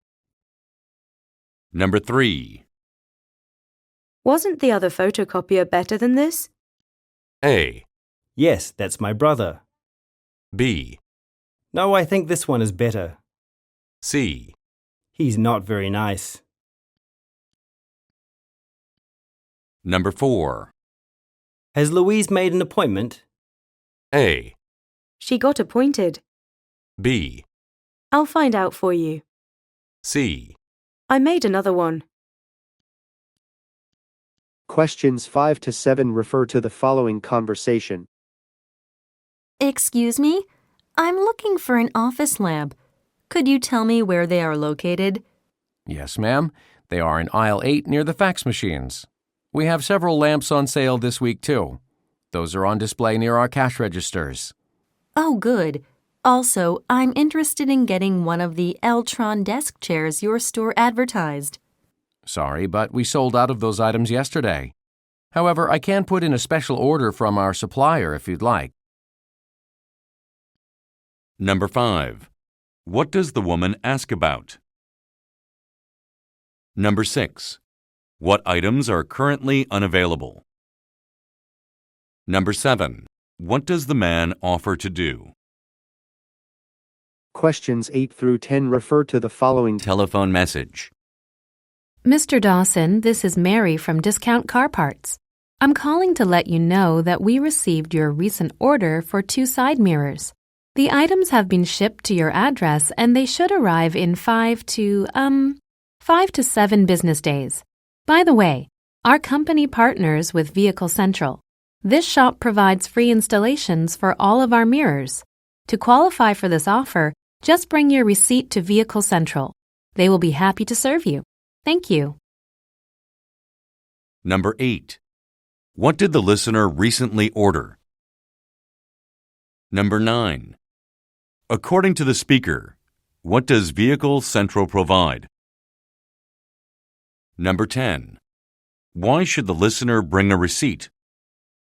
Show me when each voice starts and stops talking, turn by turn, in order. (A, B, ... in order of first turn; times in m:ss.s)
0:01.7-0:02.6 A
0:04.2-0:06.5 B
0:07.4-0:07.8 A
0:08.4-0:09.6 C
0:10.5-0:11.0 A
0:11.7-0:13.2 C
0:14.0-0:14.5 A
0:15.2-0:16.4 C
0:19.8-0:20.7 A
0:21.7-0:23.2 C
0:24.1-0:24.6 A
0:25.2-0:26.2 B
0:27.0-0:27.4 A
0:28.1-0:29.2 B
0:30.0-0:30.6 A
0:31.1-0:32.0 B
0:34.7-0:38.1 D
0:39.6-0:40.5 E
0:41.0-0:42.8 E
0:43.3-0:45.2 E
0:45.9-0:51.8 F
0:52.3-0:54.5 F
0:55.2-1:01.6 E
1:02.3-1:04.7 F
1:05.3-1:08.7 F
1:11.4-1:12.3 A
1:12.9-1:14.6 A
1:16.8-1:17.6 A
1:18.2-1:20.4 A
1:22.3-1:25.3 A
1:27.3-1:29.8 D
1:29.8-1:30.9 A
1:32.0-2:02.2 G
2:04.2-2:05.0 A
2:05.8-2:07.8 A
2:09.7-2:10.6 A
2:11.5-2:15.3 A
2:17.4-2:18.2 A
2:19.0-2:20.9 A